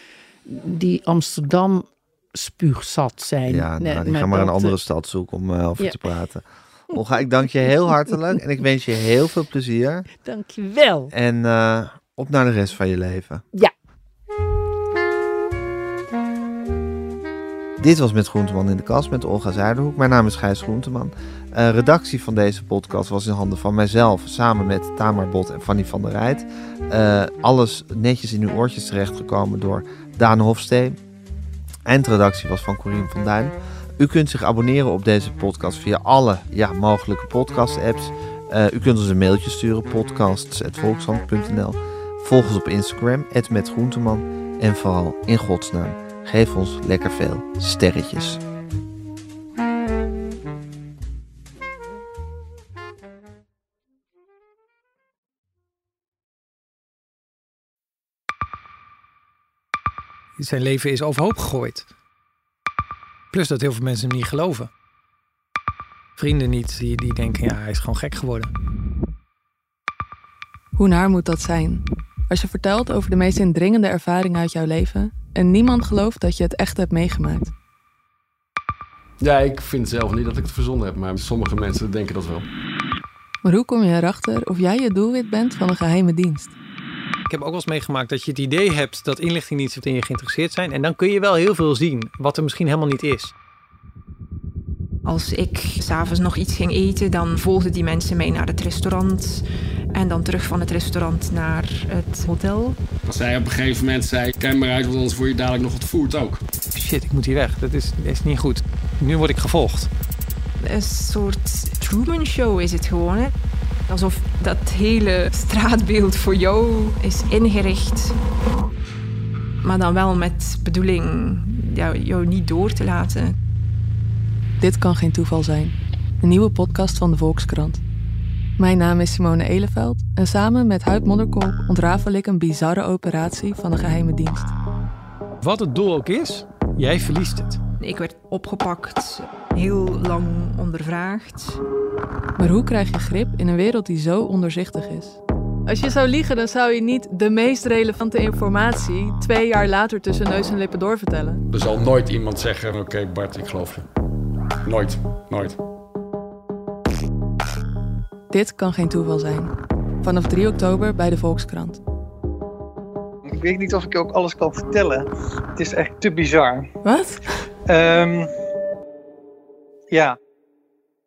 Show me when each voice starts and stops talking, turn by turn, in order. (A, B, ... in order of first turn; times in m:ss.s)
0:00.4-0:04.7 A
0:03.5-0:10.1 B
0:05.8-0:06.1 A
0:07.6-0:08.2 A
0:10.2-0:11.1 A
0:11.1-0:13.4 B
0:17.8-0:31.0 B
0:31.8-0:48.4 B
1:00.4-1:01.9 C
1:03.3-1:04.7 C
1:06.2-1:08.5 C
1:10.7-1:17.5 D
1:19.2-1:22.5 E
1:23.4-1:26.5 D
1:27.2-1:33.3 C
1:35.0-1:39.4 F
1:39.9-1:42.8 F
1:43.0-1:46.4 E
1:46.7-1:49.9 C
1:50.6-1:53.3 F
1:53.9-1:58.2 F
1:59.6-2:03.3 F
2:04.6-2:07.8 D
2:08.6-2:14.5 D
2:15.4-2:17.6 C
2:17.8-2:21.6 F
2:22.4-2:31.4 D
2:31.5-2:33.9 E
2:34.6-2:35.6 E
2:38.3-2:41.8 D
2:43.3-2:46.7 G
2:46.8-2:47.3 D
2:47.7-2:48.3 G
2:49.9-2:50.2 G